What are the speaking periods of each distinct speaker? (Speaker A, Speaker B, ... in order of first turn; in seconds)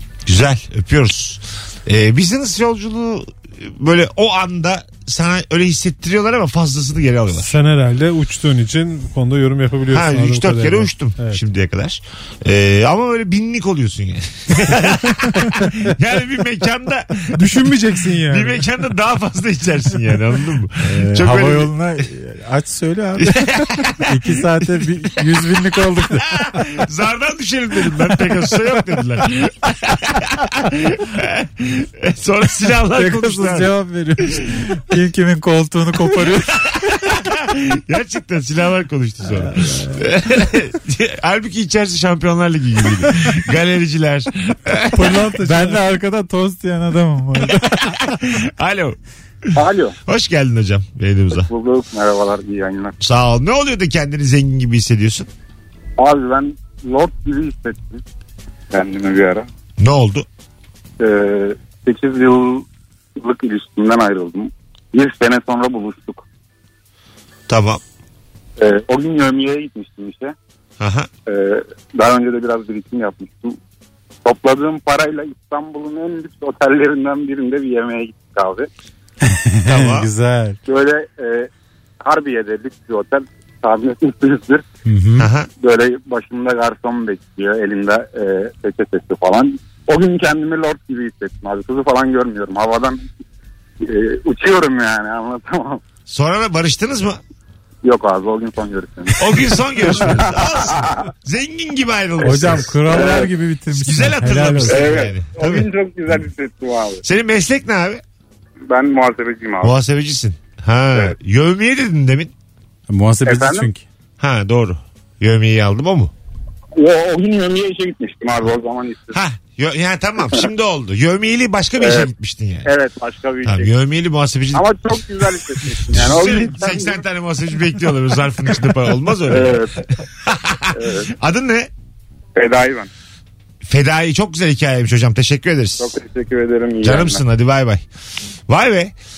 Speaker A: 0.3-7.5, 9.9-17.6, 18.3-21.7, 23.2-24.4, 26.2-33.7, 36.6-45.2, 47.8-49.0, 50.0-51.5, 53.0-55.3, 59.8-60.2, 67.5-67.8, 70.8-71.1, 79.6-80.1, 85.2-85.5, 96.1-97.2, 99.2-103.1, 103.7-105.7, 107.0-108.0, 109.6-112.3, 114.2-116.1, 119.1-122.7, 123.4-129.6, 130.2-131.7, 133.6-135.9, 136.8-137.8, 138.5-138.9
Speaker B: 7.3-11.4, 17.3-18.6, 44.9-45.8
Speaker C: 20.8-26.6, 32.9-36.9, 39.2-40.1, 45.3-47.9, 79.2-80.6, 84.8-85.3, 102.2-105.1, 112.9-113.8
Speaker D: 49.5-49.9, 51.3-52.9, 56.0-58.0, 58.7-59.5, 61.0-66.2, 68.6-70.3, 71.3-73.6, 74.2-78.7, 80.7-81.5, 82.0-84.6, 85.6-93.0, 93.8-95.8, 97.8-99.4, 100.0-100.9, 102.9-103.3, 104.6-107.0, 108.7-109.7, 113.2-113.7, 116.8-119.2, 121.8-122.1, 122.6-123.7, 124.5-127.0, 129.3-129.7, 130.7-131.1, 132.3-132.9, 135.8-137.2